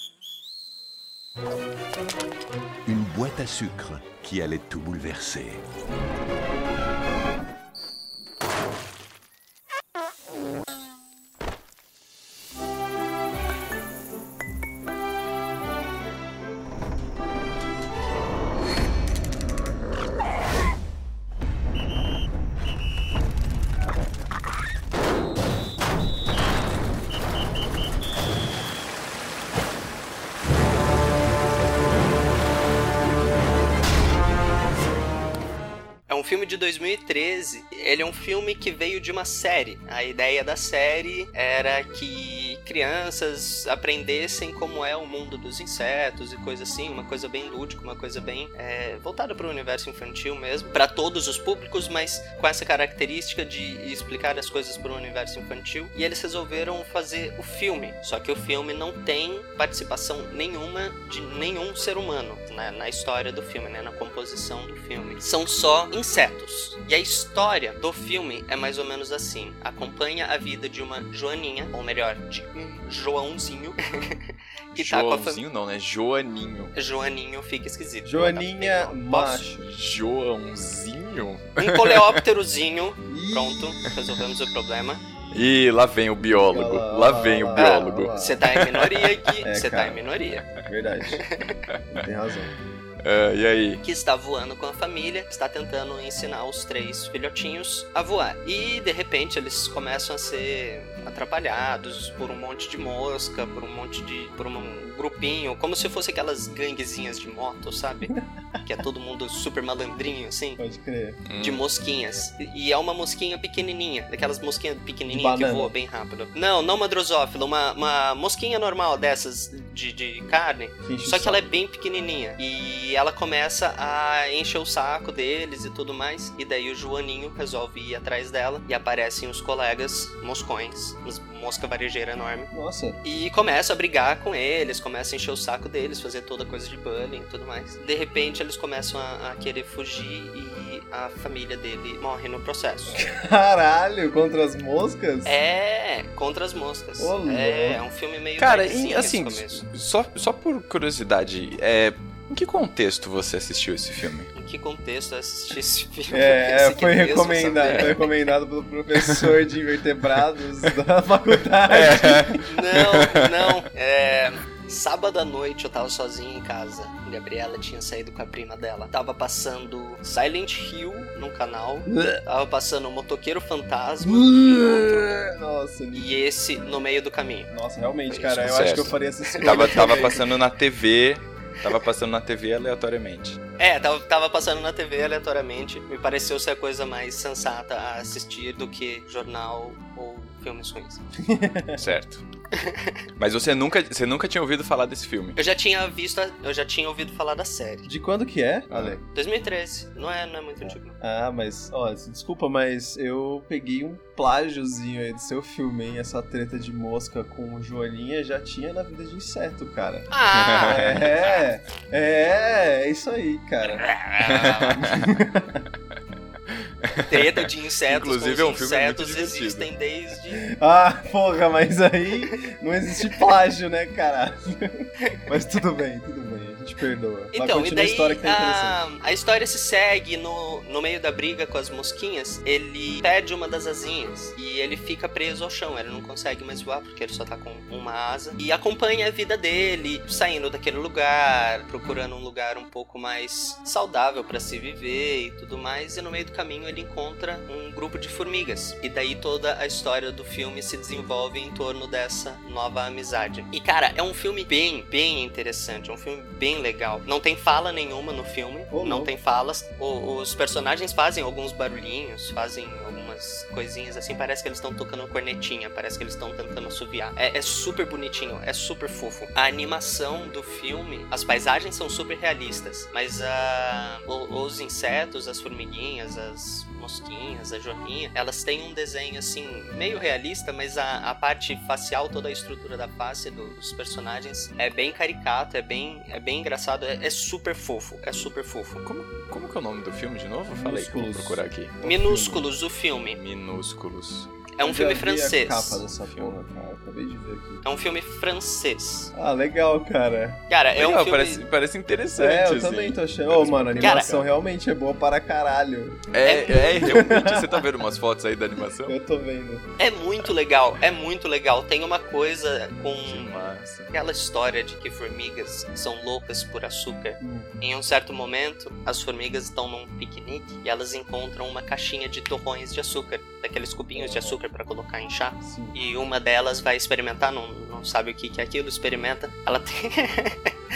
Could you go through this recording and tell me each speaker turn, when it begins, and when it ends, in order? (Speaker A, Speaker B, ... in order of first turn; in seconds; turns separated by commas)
Speaker A: 2.9-5.6, Speaker B: 36.1-74.1, Speaker B: 74.7-75.4, Speaker C: 74.7-76.7, Speaker B: 76.8-79.4, Speaker D: 78.0-79.7, Speaker C: 79.6-82.2, Speaker B: 81.6-85.0, Speaker D: 83.1-83.8, Speaker D: 85.0-85.7, Speaker C: 85.3-89.1, Speaker D: 86.2-88.4, Speaker B: 87.6-90.5, Speaker D: 89.4-90.0, Speaker D: 90.6-91.2, Speaker B: 91.1-91.5, Speaker D: 91.9-92.5, Speaker C: 93.0-93.8, Speaker B: 93.8-110.6, Speaker D: 110.6-111.2, Speaker C: 111.3-111.6, Speaker B: 111.4-132.5, Speaker D: 115.1-115.7, Speaker D: 120.8-121.6, Speaker D: 132.5-133.0, Speaker B: 133.0-143.0, Speaker D: 142.9-145.4, Speaker B: 145.2-149.7, Speaker D: 147.0-147.8, Speaker C: 148.4-154.3, Speaker B: 154.3-158.2, Speaker D: 156.1-162.4, Speaker C: 161.7-162.4, Speaker B: 162.5-175.1, Speaker D: 171.9-172.2, Speaker D: 174.0-176.2, Speaker B: 175.9-177.5, Speaker D: 177.5-180.2, Speaker B: 178.1-178.5, Speaker C: 178.4-183.4, Speaker B: 179.4-180.1, Speaker B: 183.6-191.0, Speaker D: 191.2-191.8, Speaker C: 191.8-192.2, Speaker B: 192.6-192.9, Speaker C: 193.2-195.4, Speaker B: 195.3-197.9, Speaker D: 197.8-199.0, Speaker C: 198.7-199.0, Speaker B: 199.1-200.9, Speaker D: 200.6-213.9, Speaker B: 210.1-211.4, Speaker C: 210.3-211.0, Speaker B: 213.7-214.8, Speaker C: 214.2-215.0, Speaker D: 214.8-215.6, Speaker C: 216.5-219.7, Speaker B: 217.1-220.4, Speaker D: 220.5-228.8, Speaker B: 227.3-288.8, Speaker D: 258.7-259.1, Speaker C: 288.8-291.7, Speaker D: 290.5-292.5, Speaker B: 291.8-293.2, Speaker C: 293.2-294.3, Speaker B: 294.6-295.8, Speaker D: 294.6-297.6, Speaker C: 296.0-296.3, Speaker B: 297.6-299.1, Speaker D: 299.1-300.4, Speaker B: 300.5-301.4, Speaker C: 300.8-304.3, Speaker D: 302.1-306.0, Speaker B: 303.8-304.1, Speaker C: 306.1-308.9, Speaker B: 306.2-306.9, Speaker D: 306.8-307.6, Speaker D: 308.9-309.6, Speaker B: 309.8-330.5, Speaker C: 313.0-313.9, Speaker D: 317.2-317.5, Speaker D: 323.9-324.4, Speaker D: 325.4-325.8